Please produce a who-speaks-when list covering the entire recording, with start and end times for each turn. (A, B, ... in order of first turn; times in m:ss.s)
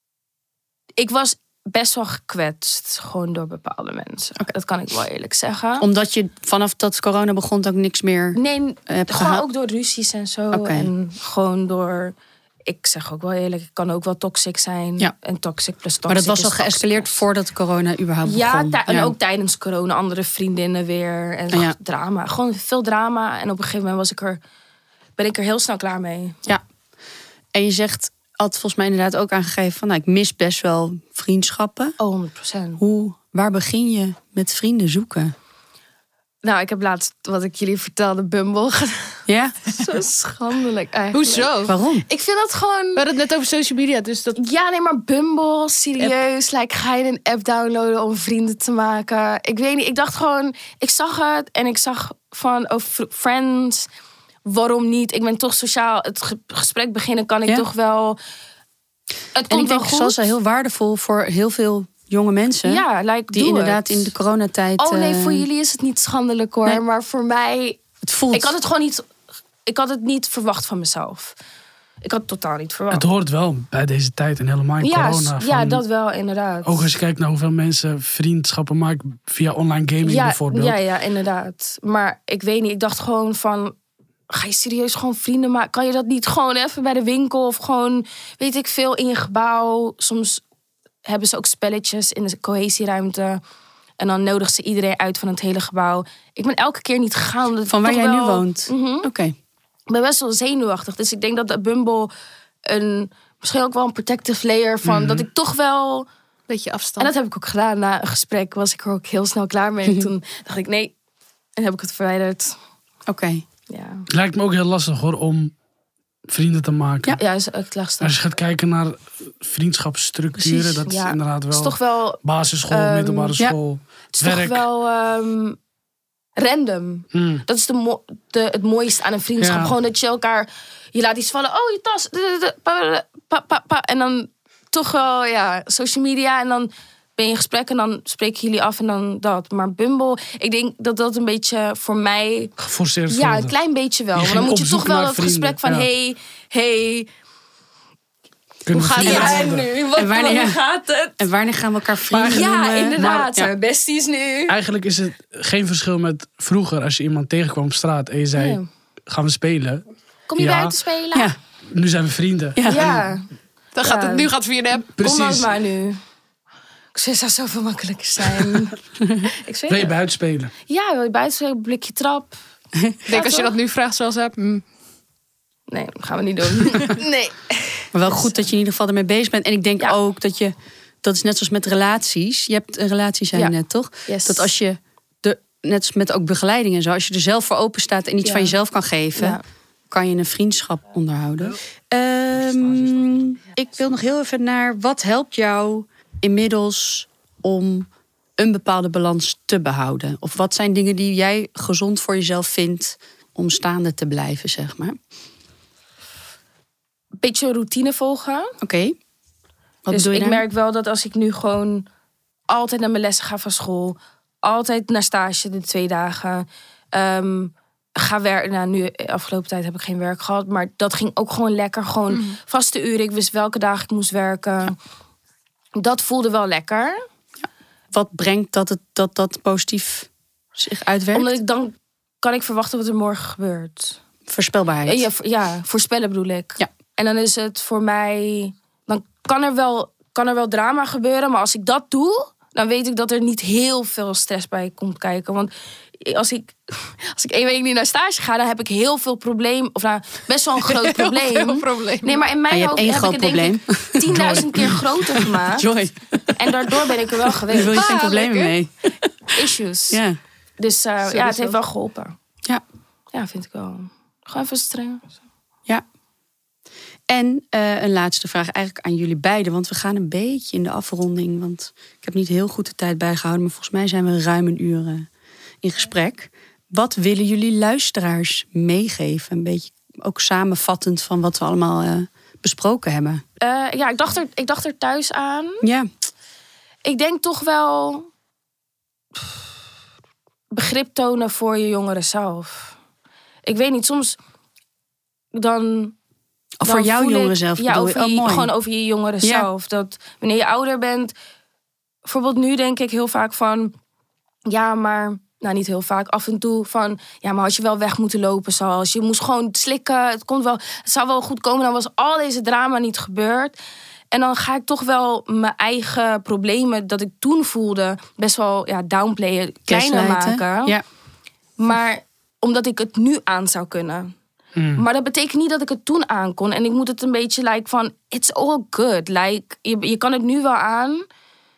0:01.0-0:05.8 A
0:05.8-0:09.4 B
0:08.3-0:12.1 A
0:10.5-0:10.9 B
0:12.7-0:17.1 A
0:16.1-0:19.1 B
0:18.2-0:24.4 A
0:25.2-0:26.4 A
0:27.5-0:32.0 B
0:32.0-0:32.8 A
0:32.8-0:35.3 B
0:36.4-0:43.0 A
0:39.3-0:39.6 B
0:41.1-0:41.7 C
0:41.7-0:42.0 B
0:42.9-0:44.4 C
0:44.4-0:53.9 A
0:54.4-0:58.2 A
0:59.3-1:00.3 A
0:59.5-1:05.4 B
1:02.6-1:04.1 A
1:04.8-1:09.1 A
1:08.0-1:08.5 B
1:09.6-1:11.4 A
1:12.0-1:13.0 A
1:12.9-1:15.8 D
1:14.8-1:16.9 A
1:16.6-1:20.8 D
1:20.0-1:23.7 A
1:24.3-1:30.4 A
1:31.0-1:33.4 A
1:34.0-1:39.1 A
1:37.7-1:39.3 B
1:39.9-1:42.1 A
1:42.7-1:46.1 A
1:44.8-1:45.3 D
1:46.5-1:47.1 C
1:47.0-1:50.9 A
1:51.6-1:52.6 A
1:53.1-1:53.4 B
1:53.7-1:54.0 A
1:54.1-1:55.5 D
1:56.3-1:57.2 D
1:57.2-1:58.2 A
1:58.0-2:04.6 D
2:00.4-2:03.3 A
2:04.1-2:05.6 A
2:06.4-2:22.5 A
2:07.1-2:07.4 D
2:09.4-2:09.7 D
2:22.6-2:23.5 D
2:23.1-2:27.1 A
2:24.1-2:25.9 D
2:28.6-2:29.7 D
2:28.7-2:31.2 A
2:29.0-2:29.4 B
2:30.0-2:30.6 B
2:31.2-2:33.5 B
2:32.1-2:33.3 D
2:32.2-2:34.5 A
2:34.5-2:39.8 D
2:38.4-2:38.6 A
2:40.3-2:41.3 A
2:40.4-2:40.7 D
2:41.6-2:43.1 D
2:42.6-2:43.0 B
2:42.6-2:43.3 A
2:43.7-2:44.9 C
2:43.8-2:44.3 A
2:45.0-2:45.5 D
2:45.0-2:46.0 A
2:46.9-2:48.8 A
2:49.0-2:49.3 B
2:49.4-2:49.9 A
2:49.7-2:50.5 D
2:50.7-2:52.3 A
2:53.0-2:53.5 A
2:53.1-2:54.6 C
2:55.7-2:58.3 A
2:57.9-3:09.4 B
3:04.1-3:04.5 A
3:08.2-3:08.6 A
3:09.1-3:09.4 A
3:09.9-3:25.0 B
3:27.2-3:28.5 A
3:28.6-3:29.0 B
3:29.8-3:30.4 B
3:29.9-3:31.8 A
3:32.5-3:44.8 A
3:45.8-3:47.0 A
3:47.9-3:51.4 B
3:51.1-3:54.0 A
3:54.3-3:55.0 B
3:54.8-4:15.7 A
4:10.7-4:12.2 C
4:12.5-4:19.3 B
4:14.1-4:14.8 D
4:16.3-4:18.5 A
4:17.7-4:18.1 C
4:19.3-4:20.0 A
4:19.9-4:20.2 B
4:20.6-4:22.1 A
4:21.0-4:21.6 C
4:23.1-4:25.1 A
4:27.1-4:35.1 B
4:35.6-4:43.2 B
4:43.4-4:45.6 A
4:45.6-4:45.9 B
4:46.8-4:48.1 A
4:50.5-4:52.8 A
4:53.4-4:54.2 A
4:55.3-4:56.0 A
4:56.6-4:58.5 B
4:56.6-5:01.1 A
5:02.0-5:03.7 A
5:04.5-5:13.6 A
5:14.1-5:20.8 A
5:19.7-5:20.8 B
5:21.6-5:24.1 A
5:24.5-5:24.8 D
5:24.8-5:31.0 A